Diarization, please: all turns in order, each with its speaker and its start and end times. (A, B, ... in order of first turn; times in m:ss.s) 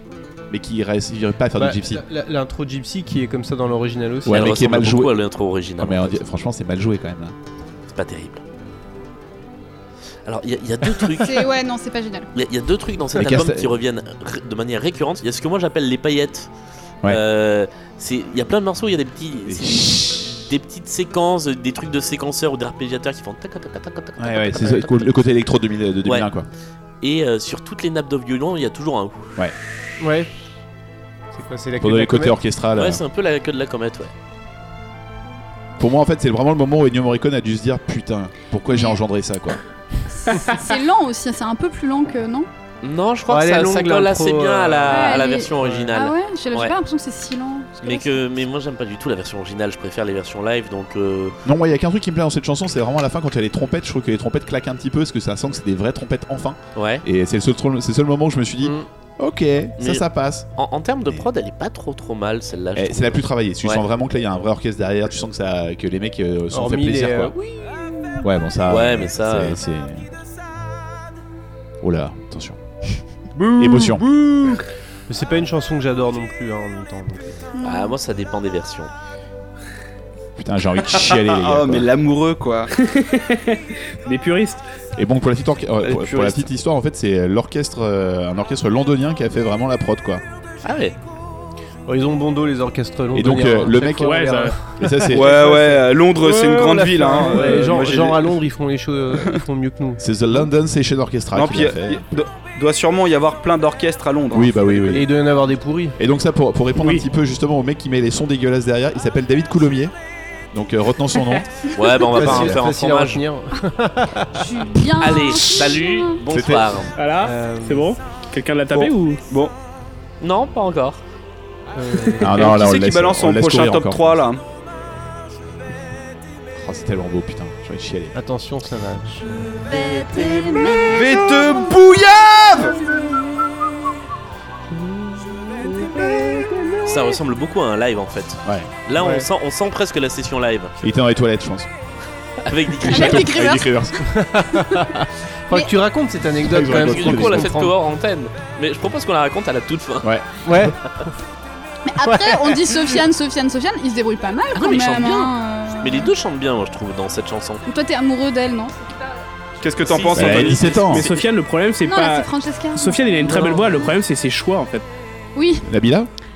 0:00.5-0:02.0 A
0:01.6-0:04.5 B
0:04.3-0:05.2 A
0:04.3-0:06.2 C
0:05.8-0:07.4 A
0:07.9-0:08.4 C
0:10.2-0:11.5 C
0:11.2-0:12.3 D
0:12.4-0:16.5 C
0:13.2-0:13.7 A
0:17.0-0:25.2 C
0:19.5-0:20.3 A
0:24.2-0:26.5 A
0:26.0-0:26.3 C
0:27.0-0:29.4 C
0:30.0-0:30.3 B
0:31.3-0:32.4 B
0:31.8-0:33.0 A
0:32.8-0:34.1 C
0:35.8-0:39.6 A
0:38.7-0:39.0 D
0:40.3-0:42.5 D
0:42.8-0:46.7 C
0:43.3-0:45.9 B
0:44.9-0:48.2 D
0:47.8-0:51.4 C
0:51.4-1:00.5 A
0:56.8-0:57.0 C
0:59.8-1:03.8 C
1:02.8-1:07.3 A
1:06.5-1:07.4 B
1:08.2-1:10.1 A
1:08.7-1:09.6 C
1:11.8-1:13.0 A
1:13.4-1:14.6 E
1:13.6-1:14.0 A
1:15.1-1:17.4 B
1:17.5-1:18.0 D
1:17.6-1:18.9 C
1:20.4-1:21.9 A
1:20.9-1:22.7 E
1:22.8-1:24.6 F
1:25.0-1:30.2 A
1:25.8-1:26.5 E
1:30.6-1:31.0 C
1:31.9-1:40.0 B
1:33.1-1:35.4 A
1:34.0-1:34.6 F
1:35.1-1:38.4 E
1:40.0-1:42.0 A
1:41.3-1:45.0 E
1:44.3-1:45.1 A
1:44.9-1:46.0 B
1:46.0-1:49.9 A
1:46.8-1:47.0 F
1:50.5-1:51.5 A
1:51.7-1:53.2 C
1:52.1-1:54.5 B
1:52.2-1:52.6 A
1:54.4-1:56.2 D
1:55.0-1:57.0 C
1:56.3-1:56.9 A
1:57.0-1:59.2 F
1:57.2-1:57.9 B
1:58.7-1:59.5 E
2:00.2-2:01.0 C
2:01.7-2:02.3 B
2:02.2-2:04.2 A
2:02.2-2:04.4 E
2:06.6-2:08.2 A
2:08.1-2:11.0 B
2:09.7-2:11.0 D
2:10.8-2:12.8 E
2:15.6-2:16.3 B
2:16.8-2:20.7 C
2:18.4-2:18.7 A
2:19.0-2:19.3 B
2:20.8-2:21.7 A
2:22.5-2:23.3 C
2:22.8-2:24.2 A
2:22.9-2:23.8 D
2:24.0-2:27.8 B
2:26.4-2:27.5 A
2:26.5-2:30.1 C
2:30.0-2:30.7 A
2:30.4-2:30.8 B
2:31.9-2:36.1 D
2:32.0-2:32.8 B
2:34.5-2:37.6 C
2:37.7-2:39.2 D
2:39.6-2:41.0 E
2:39.8-2:41.2 C
2:40.1-2:41.1 A
2:40.9-2:44.9 F
2:41.8-2:43.2 D
2:43.2-2:43.7 C
2:45.4-2:45.7 D
2:45.7-2:46.1 A